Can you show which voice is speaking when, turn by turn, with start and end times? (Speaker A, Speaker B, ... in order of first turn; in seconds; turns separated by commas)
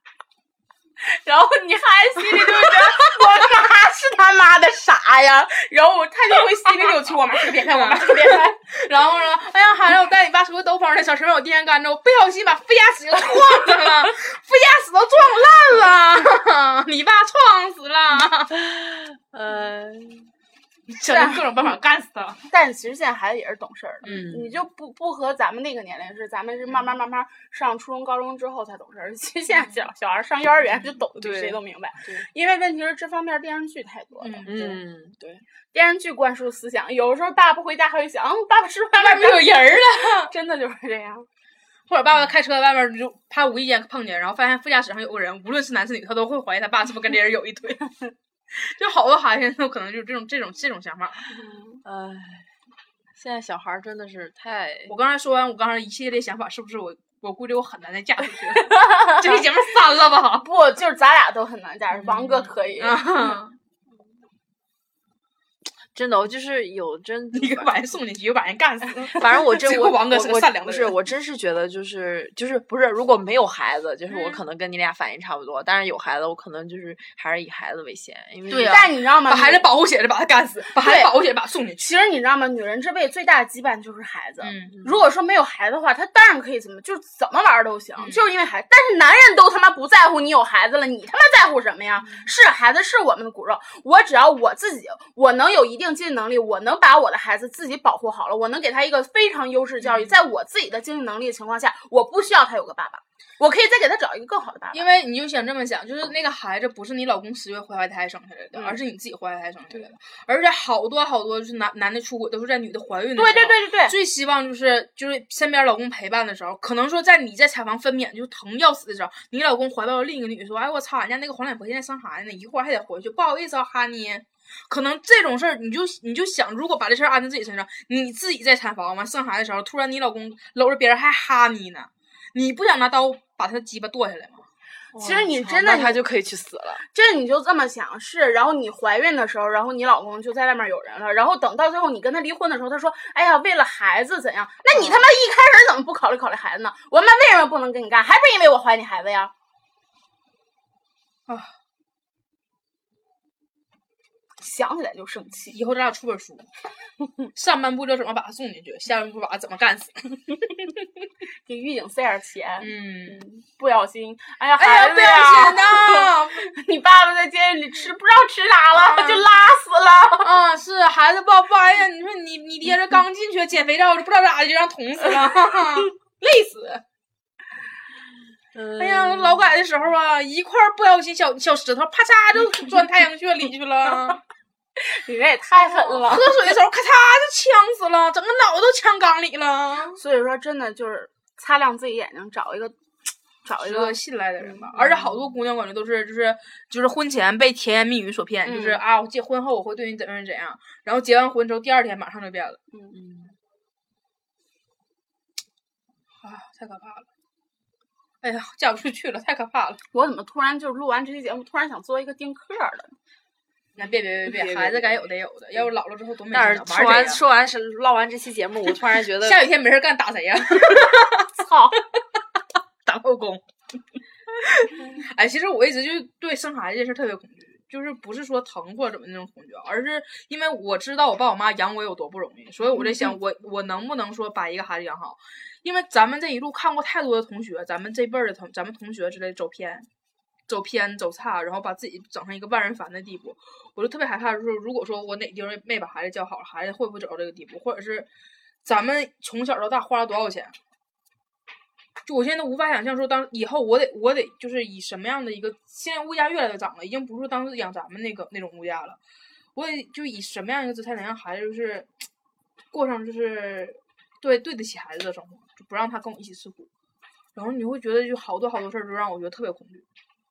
Speaker A: 1.0-8.6, Speaker B: 2.2-3.3, Speaker B: 6.9-18.6, Speaker C: 18.5-20.3, Speaker B: 20.9-22.4, Speaker A: 21.1-21.6, Speaker A: 22.5-34.8, Speaker C: 24.0-24.6, Speaker B: 29.5-29.8, Speaker C: 31.2-32.3, Speaker B: 34.2-34.8, Speaker C: 34.5-35.4, Speaker A: 35.7-41.3, Speaker B: 38.9-40.3, Speaker B: 41.9-51.3, Speaker A: 51.3-51.8, Speaker C: 51.9-52.5, Speaker C: 53.2-54.9, Speaker B: 54.9-60.5, Speaker A: 58.6-59.4, Speaker A: 60.4-63.1, Speaker B: 62.1-63.6, Speaker C: 65.9-67.7, Speaker B: 67.3-71.0, Speaker C: 69.2-78.8, Speaker B: 74.1-74.4, Speaker B: 78.5-81.9, Speaker A: 78.5-79.7, Speaker A: 80.8-81.1, Speaker A: 81.8-104.9, Speaker B: 84.4-84.9, Speaker B: 88.0-88.2, Speaker B: 99.8-100.2, Speaker B: 104.7-134.5, Speaker A: 113.2-114.0, Speaker C: 134.9-136.8, Speaker A: 135.0-136.0, Speaker A: 136.9-149.3, Speaker C: 144.7-145.0, Speaker B: 151.3-151.5, Speaker A: 154.4-155.6, Speaker B: 155.5-156.5, Speaker B: 157.3-160.6, Speaker A: 161.4-170.3, Speaker B: 162.6-163.2, Speaker B: 164.6-166.5, Speaker B: 168.7-169.3, Speaker B: 170.2-176.8, Speaker C: 178.6-179.6, Speaker B: 178.8-184.2, Speaker A: 184.8-186.3, Speaker B: 185.6-190.0, Speaker A: 189.9-192.8, Speaker A: 193.4-194.7, Speaker B: 193.6-202.6, Speaker A: 198.4-198.8, Speaker A: 202.7-203.0, Speaker C: 202.9-203.3, Speaker B: 206.2-207.1, Speaker B: 208.2-209.8, Speaker A: 209.9-213.0, Speaker B: 213.8-217.2, Speaker C: 214.3-215.1, Speaker C: 216.3-219.4, Speaker B: 219.2-221.3, Speaker A: 221.4-221.8, Speaker B: 222.8-223.4, Speaker B: 224.4-239.9, Speaker B: 240.5-248.1, Speaker B: 248.6-250.6, Speaker B: 252.1-259.0, Speaker B: 259.6-262.0, Speaker B: 262.7-266.7, Speaker B: 267.4-269.9